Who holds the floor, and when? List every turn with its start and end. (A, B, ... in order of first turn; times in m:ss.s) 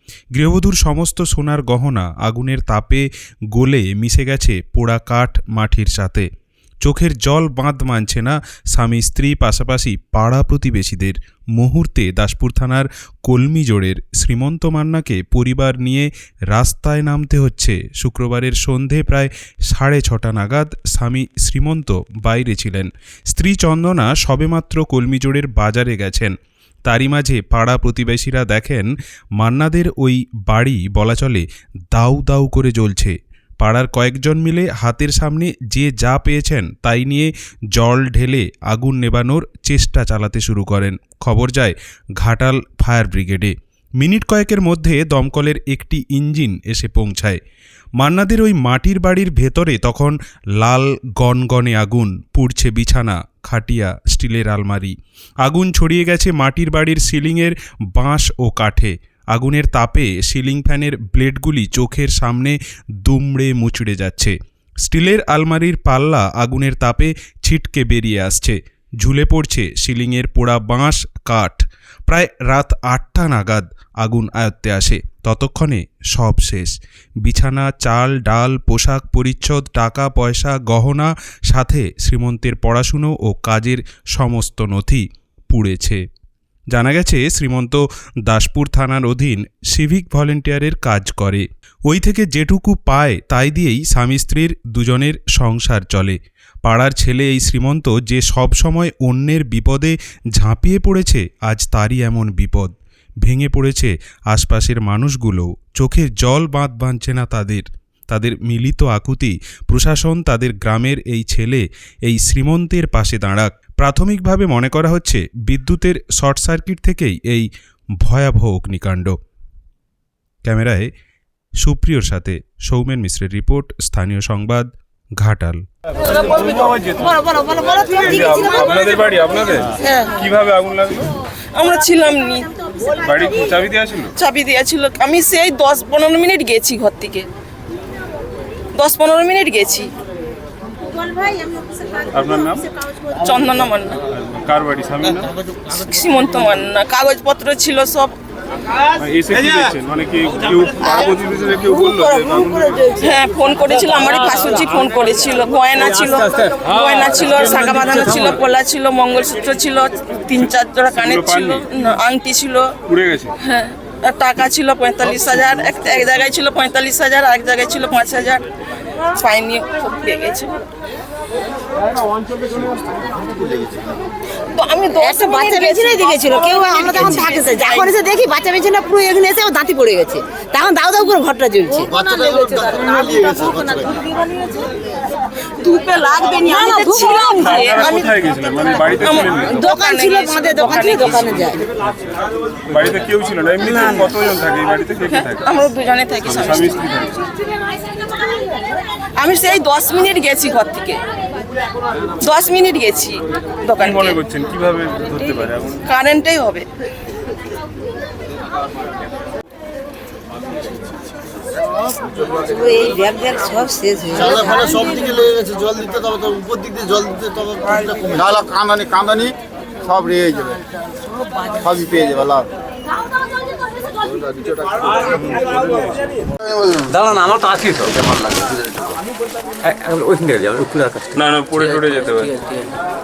0:00.3-0:06.3 A
0:06.8-0:26.4 A
0:26.9-0:47.4 A
0:48.0-1:26.0 A
1:26.7-1:57.5 A
1:58.0-1:59.2 A
2:00.4-2:00.9 A
2:01.6-2:05.6 A
2:06.1-2:07.2 B
2:06.3-2:09.0 C
2:07.8-2:11.1 B
2:09.8-2:10.1 C
2:11.6-2:12.5 D
2:13.0-2:14.1 B
2:14.2-2:17.3 D
2:18.8-2:19.9 D
2:21.1-2:22.0 C
2:22.1-2:22.7 B
2:23.2-2:24.0 D
2:23.9-2:25.3 B
2:25.8-2:28.2 D
2:29.0-2:32.9 B
2:31.8-2:33.1 C
2:33.0-2:42.8 D
2:33.9-2:34.4 C
2:37.2-2:38.4 B
2:40.4-2:41.7 B
2:42.9-2:43.4 B
2:43.4-2:48.4 D
2:49.2-2:50.6 D
2:52.2-2:54.0 E
2:54.5-2:57.9 D
2:55.0-3:04.6 C
3:01.8-3:04.0 E
3:05.6-3:11.2 D
3:06.2-3:07.7 C
3:07.3-3:09.8 B
3:09.1-3:11.6 C
3:11.3-3:11.5 B
3:12.7-3:15.6 B
3:13.7-3:14.0 C
3:15.4-3:16.8 D
3:16.2-3:17.2 B
3:19.2-3:21.0 D
3:22.2-3:24.2 D
3:23.8-3:25.8 B
3:25.9-3:26.7 D
3:32.4-3:35.2 C
3:34.2-3:40.6 E
3:41.6-3:42.5 E
3:44.3-3:44.6 E
3:45.0-3:46.0 B
3:46.8-3:48.5 F
3:48.5-3:49.0 E
3:49.6-3:52.6 F
3:51.2-3:52.4 B